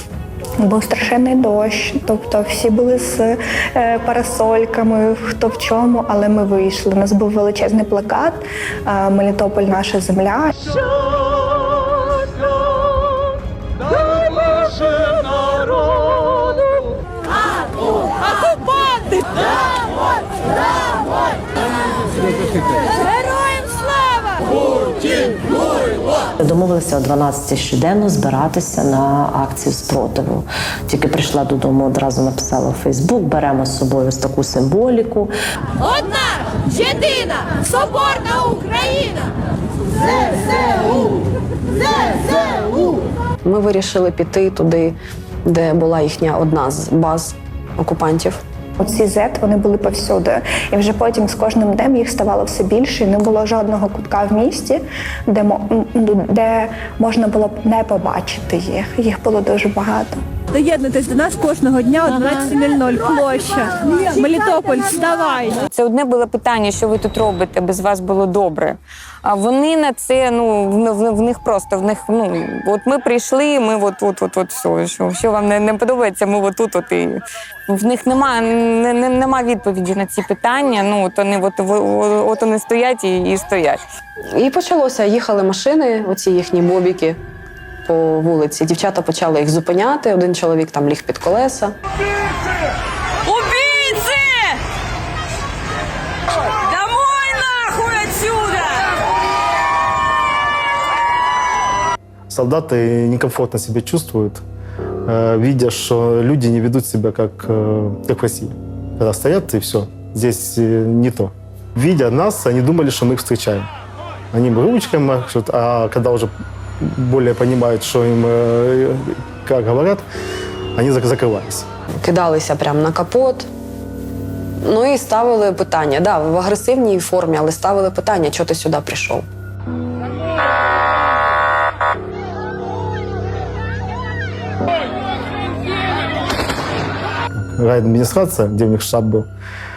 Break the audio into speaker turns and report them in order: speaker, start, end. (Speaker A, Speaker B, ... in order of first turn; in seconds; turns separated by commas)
Speaker A: 0.6-10.7, Speaker B: 26.4-35.3, Speaker B: 36.8-37.3, Speaker C: 43.5-48.4, Speaker A: 48.8-60.2, Speaker D: 60.5-65.6, Speaker E: 65.7-83.8, Speaker C: 84.3-87.2, Speaker C: 87.9-91.8, Speaker F: 93.3-94.3, Speaker F: 96.7-98.7, Speaker G: 102.3-104.4, Speaker G: 105.1-113.7, Speaker G: 114.3-120.1, Speaker G: 120.8-121.7, Speaker C: 122.0-123.5, Speaker C: 124.6-129.3, Speaker G: 137.6-139.3